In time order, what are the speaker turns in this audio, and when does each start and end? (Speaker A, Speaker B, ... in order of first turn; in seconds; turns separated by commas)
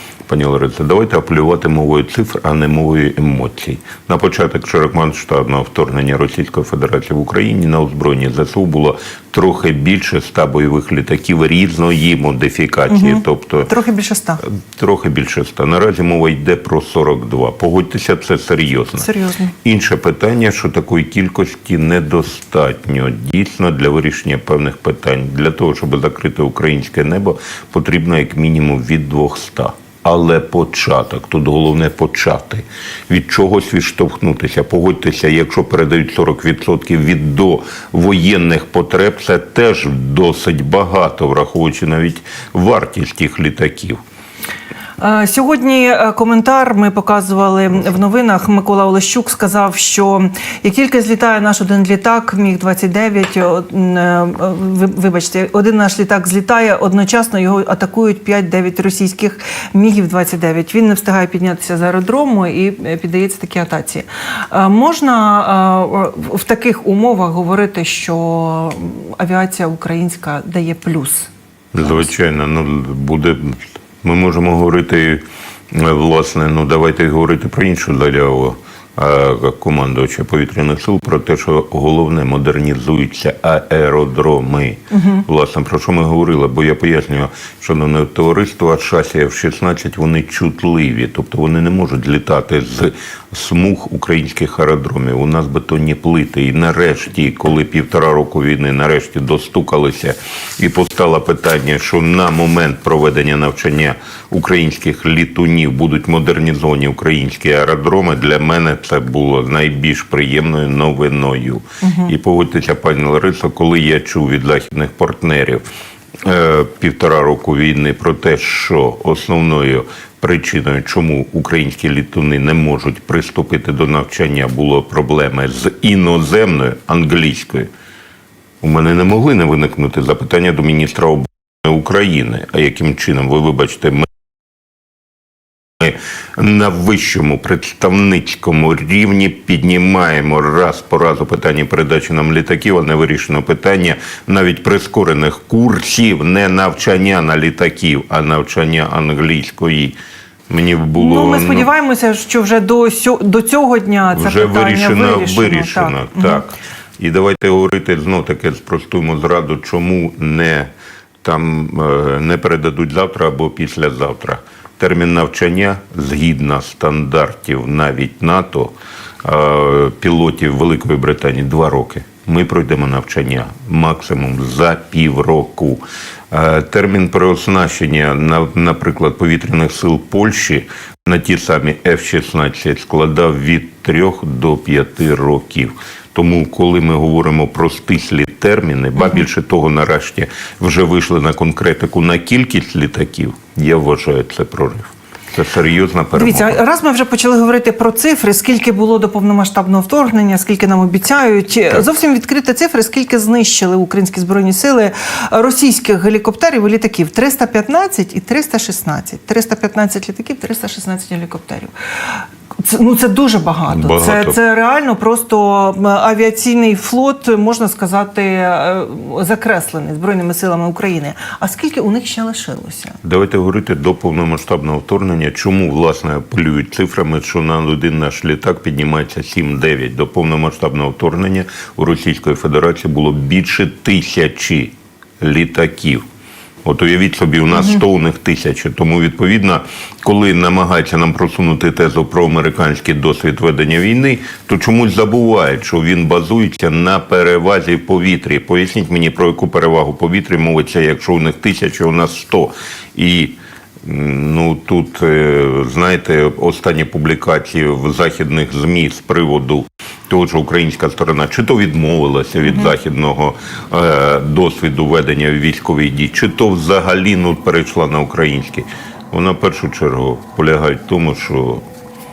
Speaker A: 0.3-13.7, Speaker B: 12.9-14.4, Speaker A: 14.4-19.1, Speaker B: 19.0-19.5, Speaker A: 19.6-44.0, Speaker B: 45.0-71.3, Speaker A: 71.7-115.6, Speaker B: 84.9-85.2, Speaker B: 111.8-112.1, Speaker A: 116.2-127.7, Speaker A: 128.6-134.1, Speaker A: 135.8-150.0, Speaker A: 150.5-151.7, Speaker B: 151.0-156.4, Speaker A: 154.1-160.7, Speaker A: 161.2-196.6, Speaker B: 196.2-223.0, Speaker A: 213.7-214.4, Speaker A: 223.0-236.0, Speaker A: 236.6-271.6, Speaker B: 237.6-237.8